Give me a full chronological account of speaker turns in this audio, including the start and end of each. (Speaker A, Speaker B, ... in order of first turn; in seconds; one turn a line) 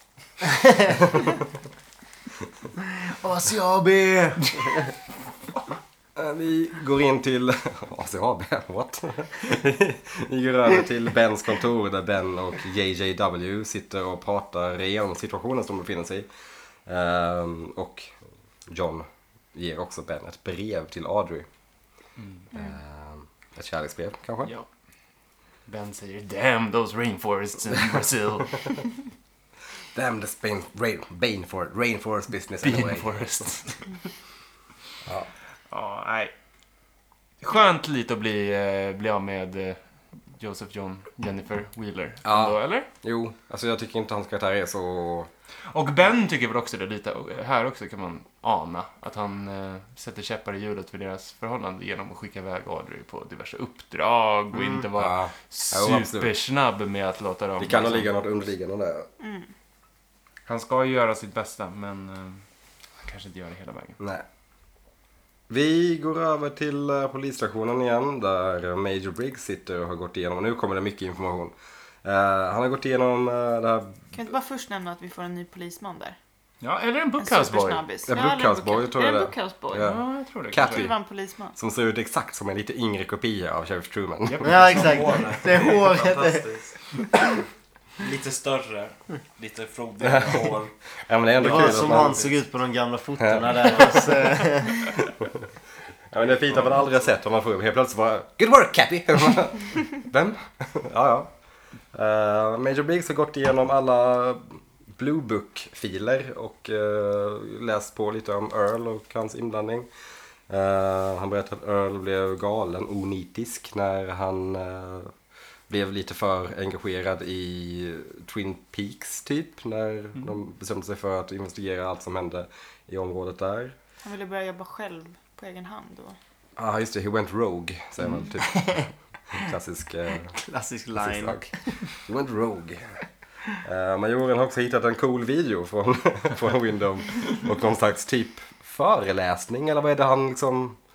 Speaker A: 0.9-1.3
Speaker B: 2.8-4.8
Speaker A: 6.2-16.3
Speaker A: 16.9-18.1
Speaker A: 18.7-21.4
Speaker C: 22.2-22.4
Speaker A: 22.5-24.5
Speaker C: 25.7-28.7
Speaker A: 29.9-33.1
Speaker C: 32.6-34.0
Speaker C: 35.7-36.3
Speaker C: 37.4-39.8
Speaker C: 40.3-42.9
Speaker A: 42.2-45.3
Speaker C: 45.7-58.1
Speaker A: 54.9-56.3
Speaker A: 57.6-59.1
Speaker D: 59.2-59.5
Speaker C: 60.5-62.4
Speaker C: 63.0-64.0
Speaker A: 64.0-64.2
Speaker A: 65.5-71.5
Speaker A: 72.0-74.0
Speaker D: 74.1-76.2
Speaker C: 76.6-77.8
Speaker D: 77.2-79.9
Speaker A: 78.1-80.9
Speaker C: 79.8-80.9
Speaker D: 80.6-81.5
Speaker A: 81.5-84.4
Speaker C: 84.3-84.5
Speaker B: 84.4-86.5
Speaker E: 84.5-86.7
Speaker E: 88.0-90.7
Speaker A: 90.0-90.5
Speaker A: 91.1-92.2
Speaker E: 91.4-92.3
Speaker B: 91.4-94.9
Speaker A: 93.2-93.7
Speaker A: 96.1-101.3
Speaker E: 96.1-97.0
Speaker A: 101.9-109.9
Speaker A: 110.5-115.1
Speaker A: 115.7-123.7
Speaker D: 124.0-126.2
Speaker A: 126.6-130.4
Speaker B: 128.5-128.8
Speaker B: 130.3-131.7
Speaker A: 131.0-132.9
Speaker A: 133.6-140.8